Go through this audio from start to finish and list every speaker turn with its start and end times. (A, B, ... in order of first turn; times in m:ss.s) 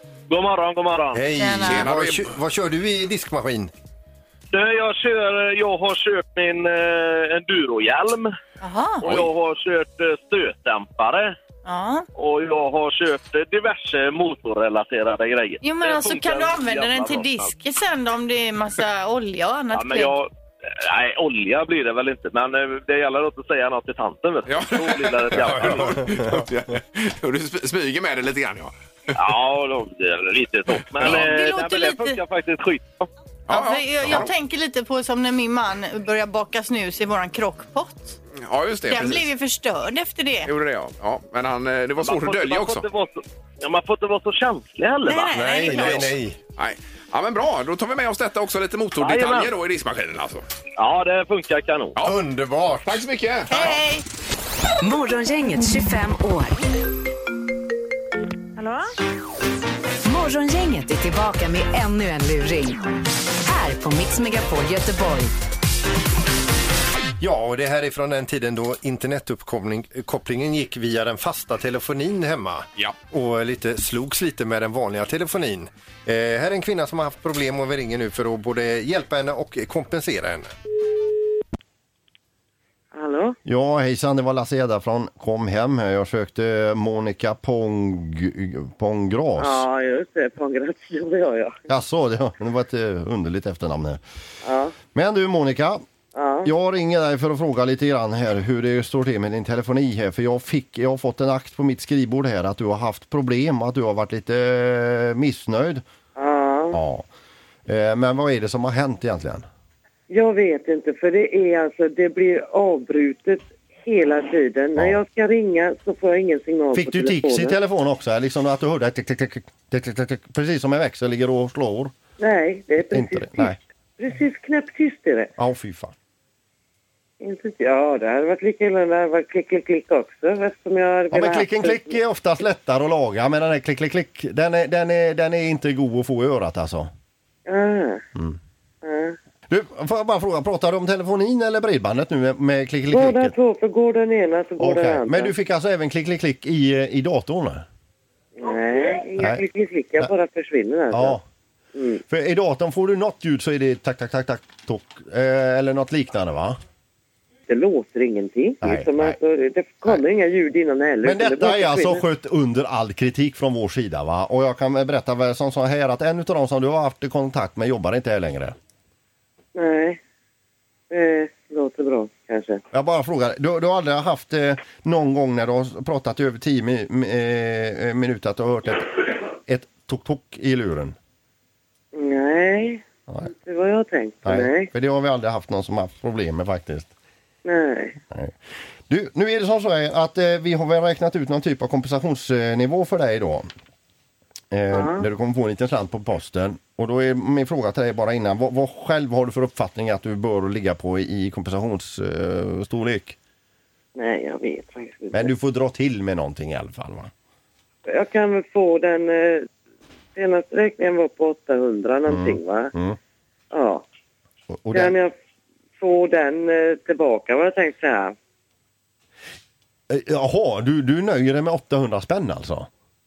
0:00.3-0:01.2 A
0:01.1-0:03.7 B
0:01.4-0:01.9 C
0:01.7-0:02.3 D
0:04.5-0:08.3 A
0:08.6-0:09.0 C
0:09.0-0:11.4 A
0:09.0-0:09.3 D
0:11.6-0:12.1 C
0:12.2-0:17.5 A
0:15.6-0:20.2 C
0:19.7-0:26.0 A
0:24.5-0:28.7 D
0:25.4-0:26.4 B
0:29.1-0:33.1 A
0:31.0-0:32.2 C
0:33.5-0:34.3 D
0:33.5-0:38.2 C
0:38.3-0:39.3 D
0:38.9-0:40.5 C
0:40.4-0:42.8 D
0:42.0-0:45.4 A
0:45.0-0:46.1 C
0:45.3-0:46.4 B
0:46.6-0:50.4 D
0:49.0-0:49.5 A
0:50.8-0:52.0 A
0:52.0-0:53.0 B
0:52.8-0:53.8 D
0:53.5-0:54.0 C
0:54.8-0:56.6 E
1:00.0-1:02.8 E
1:03.4-1:05.3 E
1:07.2-1:20.5 B
1:22.9-1:23.4 F
1:23.5-1:29.7 G
1:29.4-1:31.6 F
1:31.7-1:34.0 G
1:34.4-1:34.8 F
1:34.9-1:35.8 G
1:36.2-1:36.5 F
1:36.4-1:45.8 G
1:46.2-1:46.8 F
1:46.7-1:47.1 G
1:47.7-1:49.5 G
1:50.1-1:57.6 F
1:54.8-1:55.0 G
1:56.7-2:01.9 G
2:02.2-2:05.3 F
2:02.9-2:03.6 G
2:05.4-2:05.9 G
2:07.2-2:12.0 F
2:11.1-2:16.9 G
2:17.5-2:18.0 F
2:18.8-2:19.2 F
2:19.5-2:23.3 G
2:22.9-2:25.4 F
2:24.6-2:27.6 G
2:28.4-2:31.2 F
2:29.2-2:29.4 G
2:30.9-2:31.2 G
2:31.8-2:32.0 F
2:32.1-2:36.6 G
2:37.5-2:42.0 F
2:38.6-2:39.2 G
2:41.0-2:48.6 G
2:49.6-2:50.0 F
2:50.9-2:52.6 F
2:52.7-3:01.0 G
3:01.9-3:04.7 F
3:04.2-3:06.9 G
3:07.4-3:08.0 F
3:08.9-3:13.5 G
3:14.5-3:23.2 G
3:14.7-3:15.1 F
3:24.0-3:25.3 F
3:25.1-3:27.1 G
3:27.9-3:29.5 F
3:30.2-3:32.7 F
3:32.1-3:33.0 G
3:33.5-3:33.8 F
3:34.5-3:35.0 G
3:34.7-3:35.1 F
3:35.8-3:38.2 F
3:39.9-3:42.7 G